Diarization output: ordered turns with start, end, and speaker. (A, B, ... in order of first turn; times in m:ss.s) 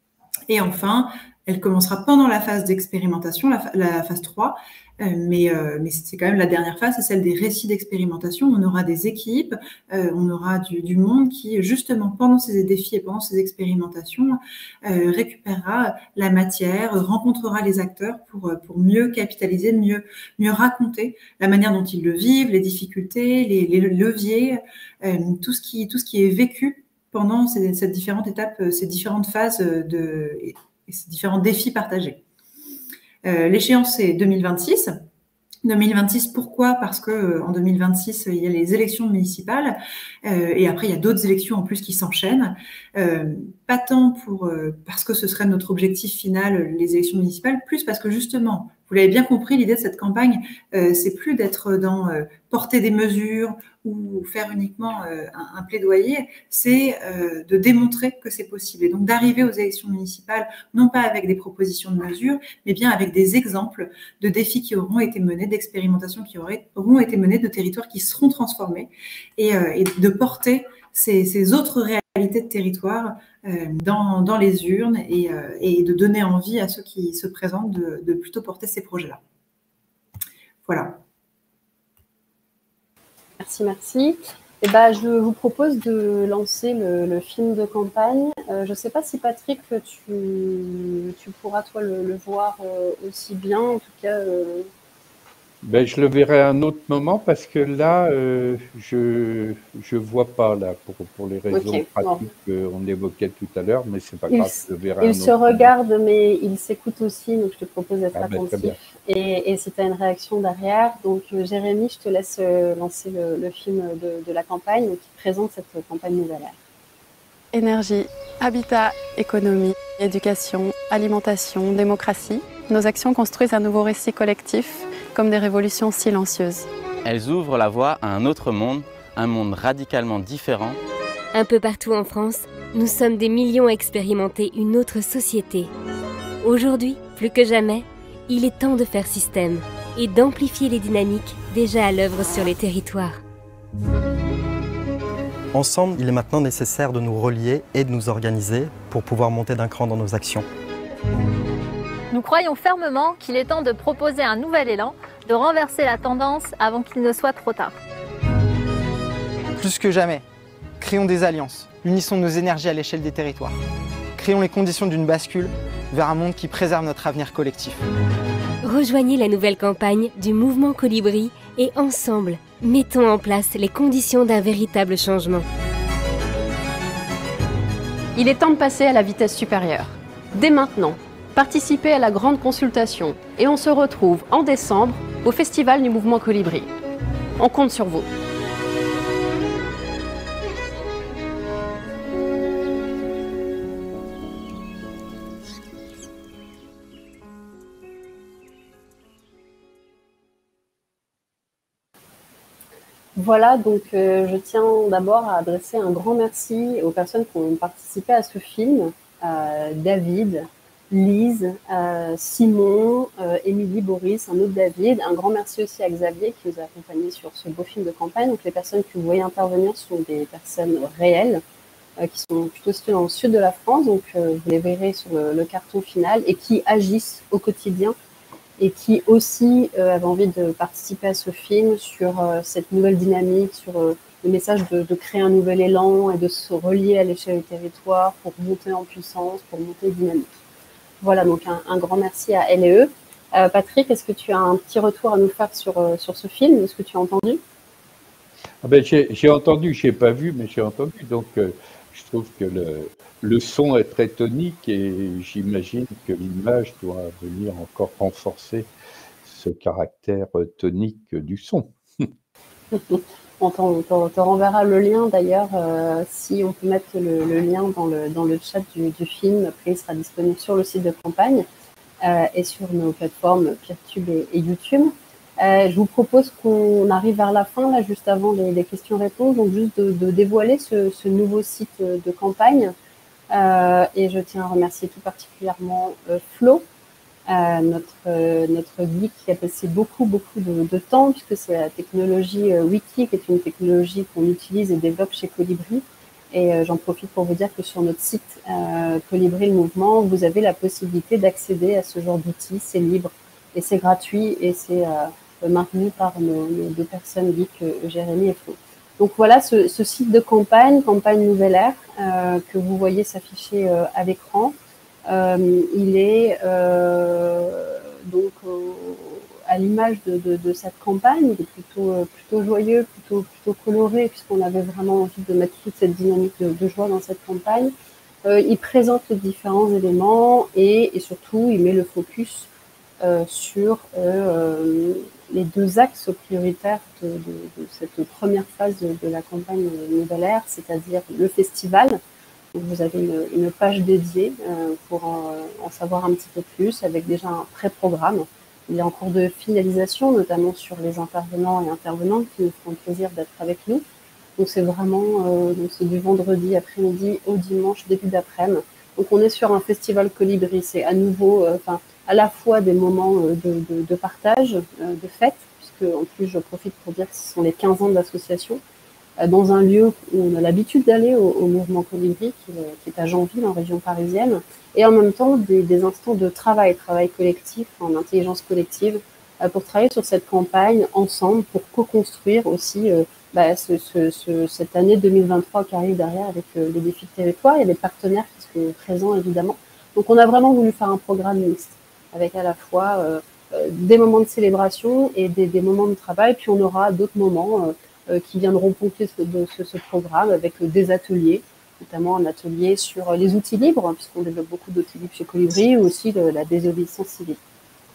0:00.5-0:32.2 A
0:33.2-0:35.0 A
0:35.6-1:19.2 A
1:20.6-1:21.0 A
1:23.4-1:34.7 B
1:35.6-1:45.7 C
1:41.5-1:42.2 B
1:44.3-1:56.6 B
1:48.1-1:48.8 C
1:57.5-2:06.7 D
2:07.0-2:10.8 E
2:11.3-2:15.7 F
2:16.4-2:23.2 F
2:25.5-2:30.5 G
2:32.1-2:37.7 H
2:39.6-2:40.2 I
2:40.8-2:43.6 I
2:44.2-2:47.8 I
2:48.6-2:55.4 F
3:00.4-3:00.8 B
3:01.6-3:02.1 B
3:02.8-3:03.4 B
3:07.4-3:07.9 B
3:23.1-3:41.4 B
3:42.0-3:47.9 B
3:48.6-4:00.3 B
4:01.0-4:07.4 B
4:08.6-4:18.7 C
4:19.2-4:22.1 C
4:22.7-4:31.4 B
4:32.0-4:42.7 B
4:43.3-4:46.6 B
4:47.3-5:14.5 B
5:15.0-5:27.7 B
5:28.2-5:32.5 B
5:33.0-5:42.0 B
5:42.5-5:53.8 B
5:54.4-6:08.6 B
6:09.2-6:47.4 B